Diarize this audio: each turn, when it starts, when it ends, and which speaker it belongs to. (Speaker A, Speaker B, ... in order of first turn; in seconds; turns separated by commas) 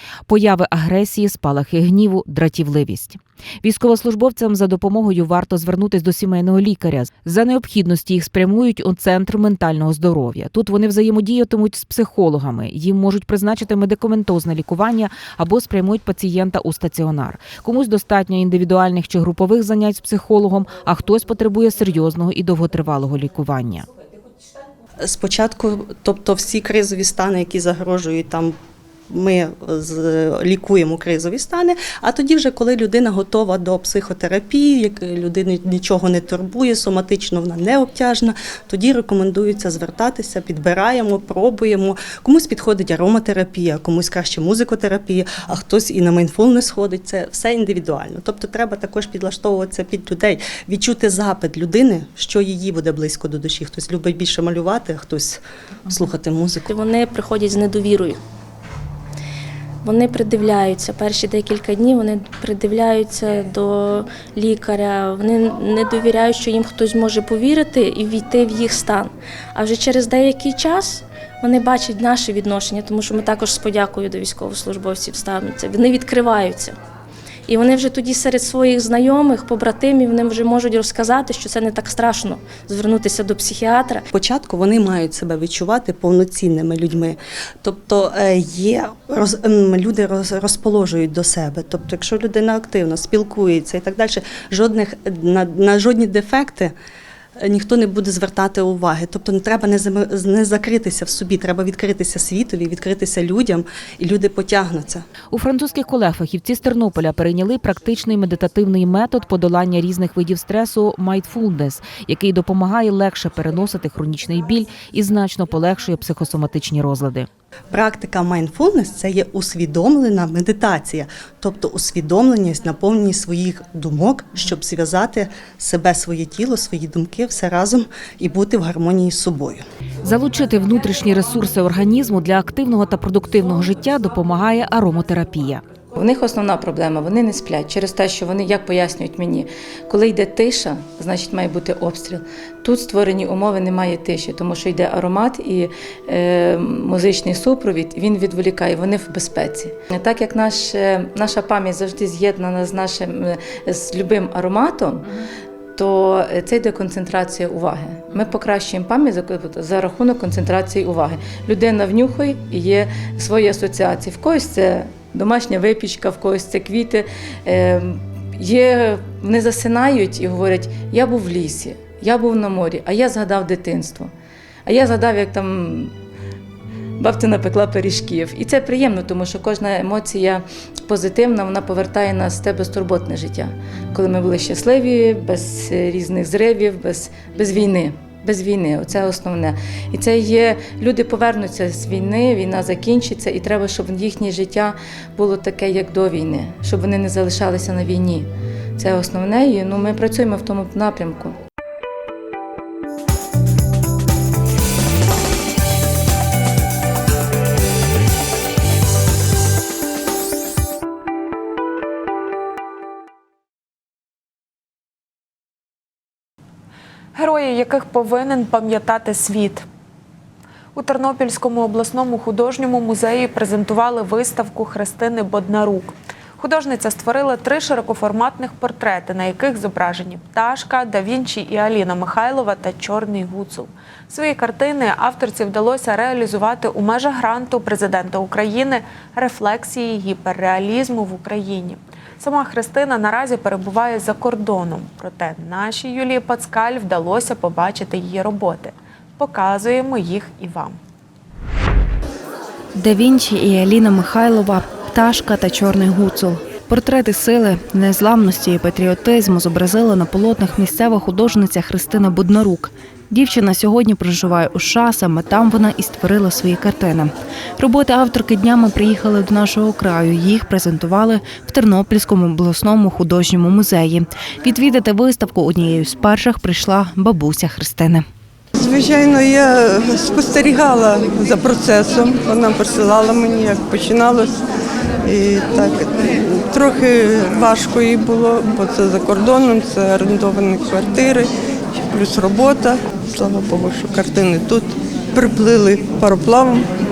Speaker A: 0.3-23.9, Speaker B: 25.0-28.5, Speaker B: 29.1-56.7, Speaker C: 56.7-58.2, Speaker C: 59.8-76.7, Speaker C: 77.5-84.0, Speaker B: 84.1-96.7, Speaker B: 97.4-105.0, Speaker A: 105.3-117.3, Speaker B: 117.7-129.6, Speaker A: 130.0-135.6, Speaker D: 135.9-155.1, Speaker D: 155.7-174.1, Speaker D: 174.7-175.9, Speaker D: 177.0-201.4, Speaker E: 217.1-219.7, Speaker E: 220.7-250.8, Speaker F: 252.8-278.1, Speaker G: 278.5-284.4, Speaker G: 285.0-296.7